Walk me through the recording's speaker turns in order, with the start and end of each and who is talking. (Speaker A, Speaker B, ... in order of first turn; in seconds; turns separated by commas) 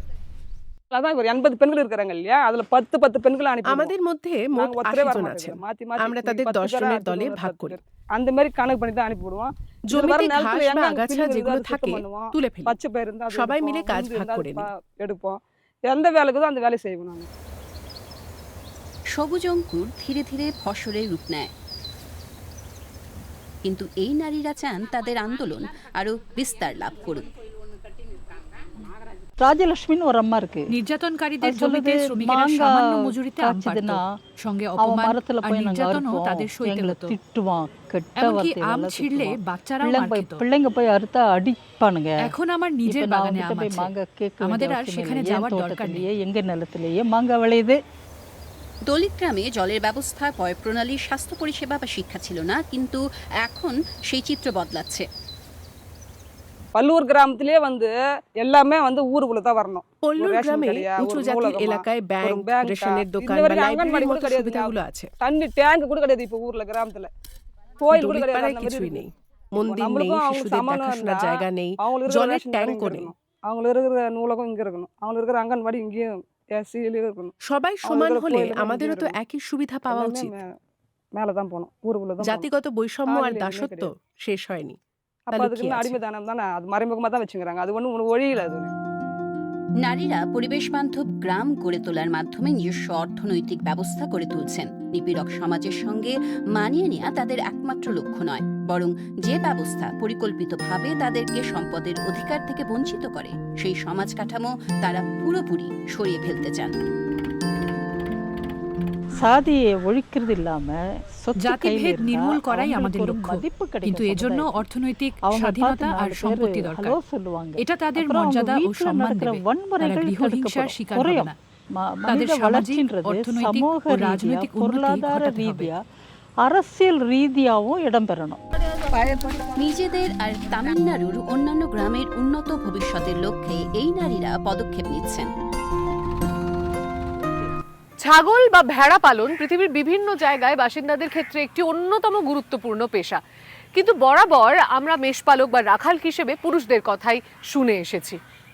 Speaker A: 0.9-3.9, Speaker B: 3.7-7.8, Speaker A: 4.6-15.4, Speaker B: 9.9-12.8, Speaker B: 13.3-14.7, Speaker A: 15.9-17.3, Speaker C: 19.1-21.5, Speaker C: 23.6-27.3, Speaker D: 29.4-30.7, Speaker E: 30.7-37.2, Speaker D: 31.4-34.0, Speaker D: 34.8-42.3, Speaker E: 38.2-40.5, Speaker E: 42.2-46.1, Speaker D: 42.9-47.8, Speaker C: 48.9-55.1, Speaker A: 56.8-67.1, Speaker B: 60.0-65.1, Speaker A: 67.8-69.0, Speaker B: 67.9-73.1, Speaker A: 69.6-77.3, Speaker B: 77.4-80.4, Speaker A: 77.8-79.1, Speaker A: 79.9-80.5, Speaker A: 81.2-82.5, Speaker B: 82.2-84.8, Speaker A: 83.1-83.9, Speaker B: 85.3-86.0, Speaker A: 85.3-88.7, Speaker C: 89.8-106.8, Speaker D: 109.2-114.6, Speaker E: 111.4-117.0, Speaker D: 115.2-125.8, Speaker E: 117.6-121.3, Speaker E: 122.1-125.7, Speaker D: 126.4-128.4, Speaker C: 129.0-135.3, Speaker F: 138.0-143.2, Speaker F: 143.8-148.2